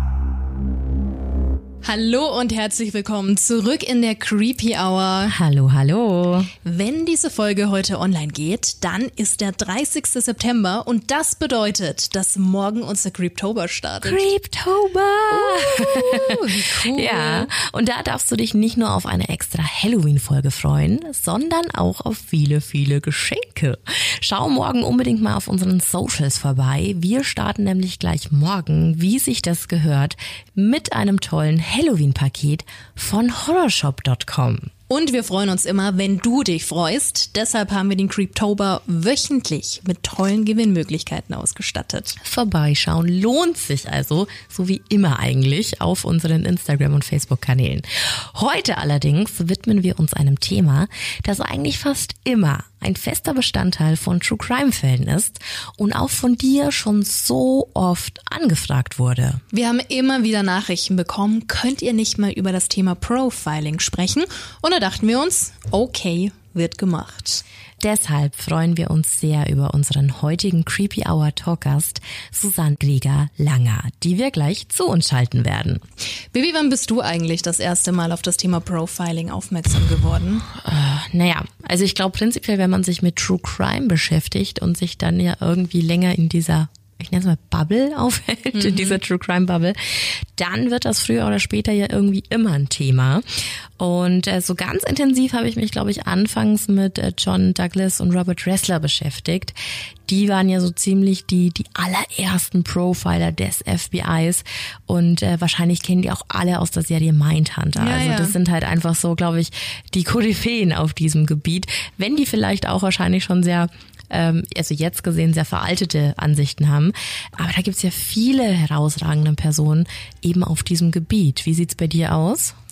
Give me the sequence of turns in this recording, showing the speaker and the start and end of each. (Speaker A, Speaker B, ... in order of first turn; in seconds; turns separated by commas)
Speaker A: 1.8-5.4, Speaker B: 5.3-6.5, Speaker A: 6.6-14.3, Speaker B: 14.0-34.7, Speaker A: 15.3-17.5, Speaker A: 34.9-42.2, Speaker B: 42.2-59.4, Speaker A: 59.5-67.4, Speaker B: 67.8-75.8, Speaker A: 76.3-80.5, Speaker B: 80.5-122.6, Speaker A: 88.5-89.0, Speaker A: 107.8-108.4